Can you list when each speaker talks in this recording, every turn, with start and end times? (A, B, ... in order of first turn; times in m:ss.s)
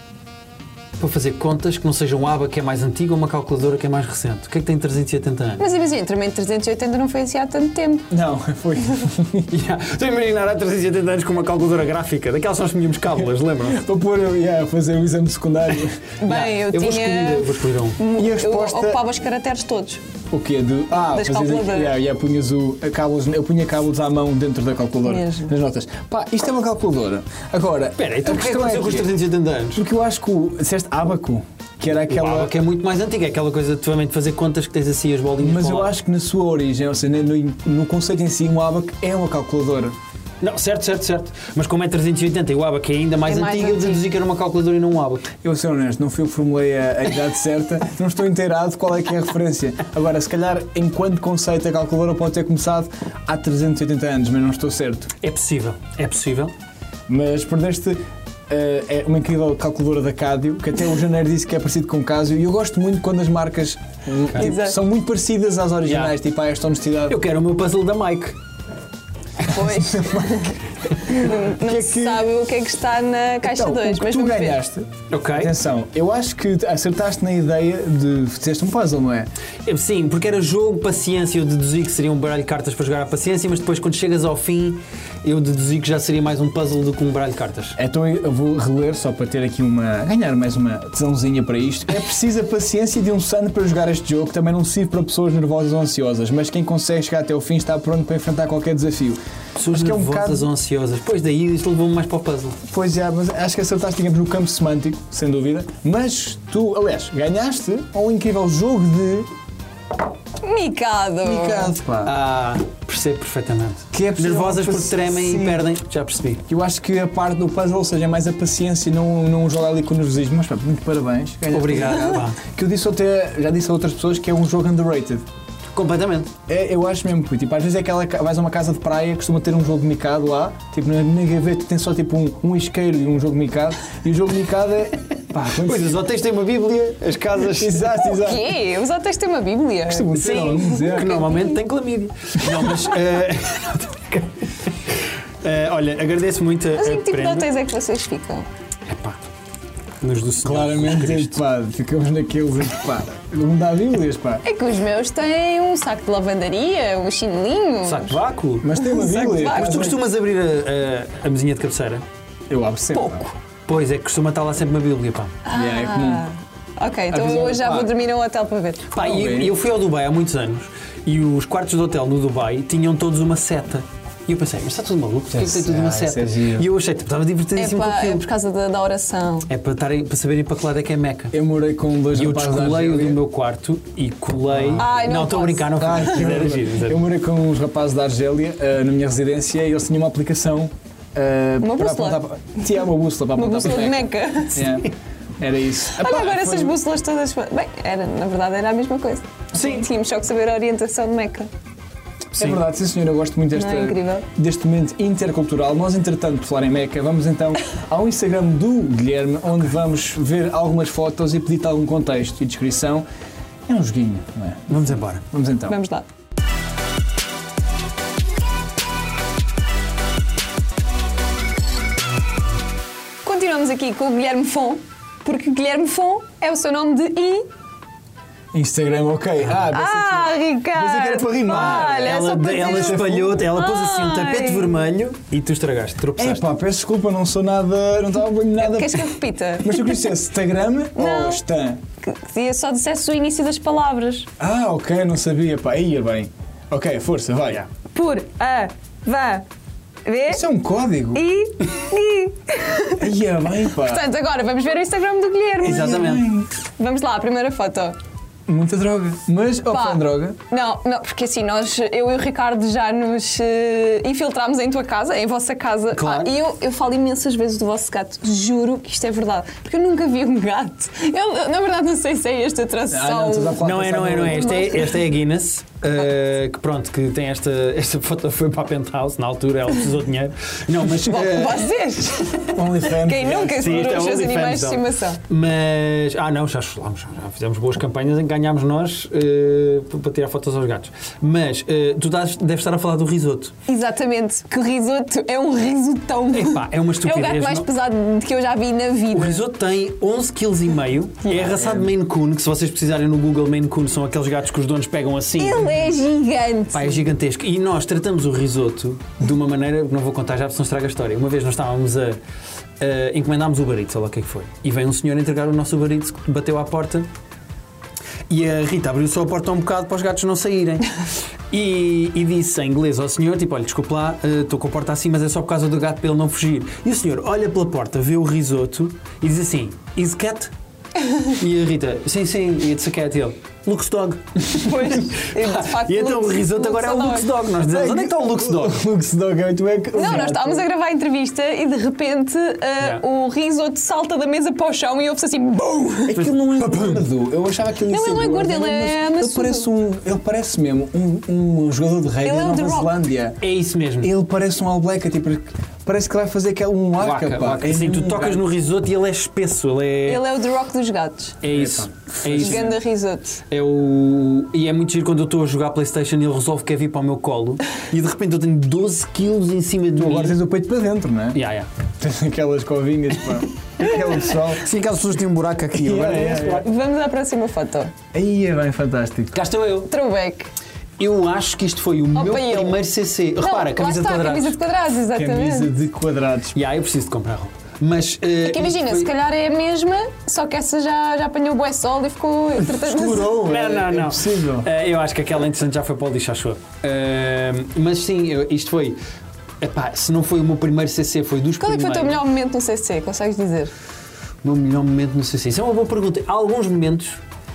0:01.0-0:05.6 A
0:05.6-0:08.1 B
0:08.1-0:09.5 C
0:09.5-0:13.8 A
0:13.6-0:16.1 C
0:16.2-0:20.0 B
0:16.2-0:18.0 A
0:18.1-0:19.0 C
0:20.3-0:29.1 C
0:21.1-0:22.0 B
0:25.0-0:25.5 B
0:28.0-0:29.8 A
0:29.7-0:32.5 C
0:32.1-0:35.9 A
0:35.4-0:40.0 C
0:40.4-0:45.3 A
0:43.2-0:44.0 B
0:45.4-0:55.1 C
0:55.2-0:56.5 A
0:57.1-1:07.2 C
1:04.4-1:04.8 B
1:05.8-1:06.1 A
1:07.1-1:08.4 A
1:09.4-1:14.6 B
1:09.5-1:10.5 C
1:11.1-1:12.3 C
1:13.4-1:19.3 C
1:15.1-1:15.5 A
1:19.6-1:27.8 A
1:27.8-1:39.2 C
1:39.6-1:42.6 A
1:39.7-1:40.5 C
1:42.6-1:49.3 C
1:50.4-1:51.8 B
1:51.2-1:52.1 C
1:52.0-1:56.4 A
1:53.9-1:55.6 C
1:56.5-2:05.2 C
2:01.5-2:02.4 A
2:05.7-2:06.3 A
2:06.5-2:16.0 C
2:15.4-2:17.9 A
2:17.4-2:18.6 C
2:18.0-2:21.6 B
2:19.9-2:21.1 C
2:20.1-2:24.4 A
2:25.4-2:27.5 A
2:26.8-2:28.5 B
2:28.9-2:29.2 A
2:30.0-2:31.4 A
2:30.4-2:34.4 C
2:34.4-2:38.2 B
2:37.8-2:38.7 A
2:38.6-2:40.0 C
2:38.7-2:39.9 B
2:39.5-2:42.0 A
2:42.5-2:43.2 C
2:42.9-2:43.2 B
2:43.7-2:45.4 A
2:45.4-2:48.9 B
2:45.5-2:46.2 C
2:47.1-2:47.9 C
2:48.9-2:58.2 A
2:49.0-2:49.5 C
2:55.3-2:56.7 C
2:57.6-2:59.5 B
2:59.5-3:01.3 A
3:01.3-3:03.2 C
3:02.1-3:07.0 A
3:04.5-3:04.8 C
3:04.8-3:06.2 B
3:05.8-3:16.8 C
3:11.6-3:12.2 B
3:13.3-3:14.8 B
3:16.0-3:21.5 B
3:19.5-3:19.9 A
3:22.3-3:22.6 A
3:22.4-3:33.0 C
3:23.5-3:24.2 B
3:33.7-3:35.8 C
3:34.7-3:35.2 A
3:35.7-3:36.0 B
3:43.2-3:47.4 B
3:48.5-3:53.4 C
3:49.7-3:54.9 B
3:51.5-3:56.4 A
3:56.2-4:01.8 C
3:58.6-4:00.1 B
4:01.0-4:01.4 B
4:02.0-4:04.3 B
4:04.4-4:07.6 C
4:07.9-4:09.4 B
4:10.0-4:10.4 B
4:10.3-4:11.2 C
4:11.1-4:13.1 B
4:13.0-4:14.0 C
4:13.7-4:16.2 B
4:15.6-4:16.3 A
4:15.6-4:16.5 C
4:16.8-4:18.0 B
4:18.5-4:20.4 C
4:19.7-4:33.6 B
4:25.9-4:26.3 A
4:32.9-4:34.7 C
4:33.6-4:41.6 A
4:34.2-4:35.0 B
4:41.0-4:45.2 B
4:42.5-4:44.2 C
4:43.4-4:53.5 A
4:53.7-4:59.5 B
4:56.3-4:57.7 A
4:59.1-5:05.7 A
5:01.2-5:01.5 B
5:01.6-5:01.9 C
5:05.4-5:07.1 B
5:06.7-5:12.2 A
5:12.8-5:17.1 A
5:18.3-5:20.9 A
5:21.5-5:30.5 A
5:31.2-5:38.8 A
5:34.4-5:37.3 B
5:37.7-5:40.6 C
5:39.9-5:46.2 B
5:46.1-5:53.4 C
5:46.1-5:47.0 A
5:47.9-5:49.7 B
5:52.2-5:53.0 B
5:53.4-5:54.1 A
5:54.0-5:58.5 C
5:57.0-6:00.2 A
6:00.0-6:01.4 B
6:01.4-6:02.8 A
6:01.5-6:02.7 C
6:02.3-6:03.4 B
6:03.5-6:10.4 A
6:10.0-6:11.4 C
6:11.3-6:11.7 A
6:12.0-6:14.7 C
6:14.5-6:16.6 A
6:15.7-6:16.6 C
6:16.5-6:17.9 B
6:18.1-6:19.4 C
6:19.3-6:19.9 A
6:19.9-6:20.5 B
6:21.0-6:24.6 A
6:22.1-6:22.8 B
6:23.4-6:25.7 B
6:25.1-6:26.6 C
6:26.5-6:29.1 A
6:28.4-6:33.4 B
6:32.8-6:39.0 A
6:32.8-6:34.7 C
6:39.6-6:42.2 A
6:41.6-6:43.7 B
6:44.4-6:47.2 A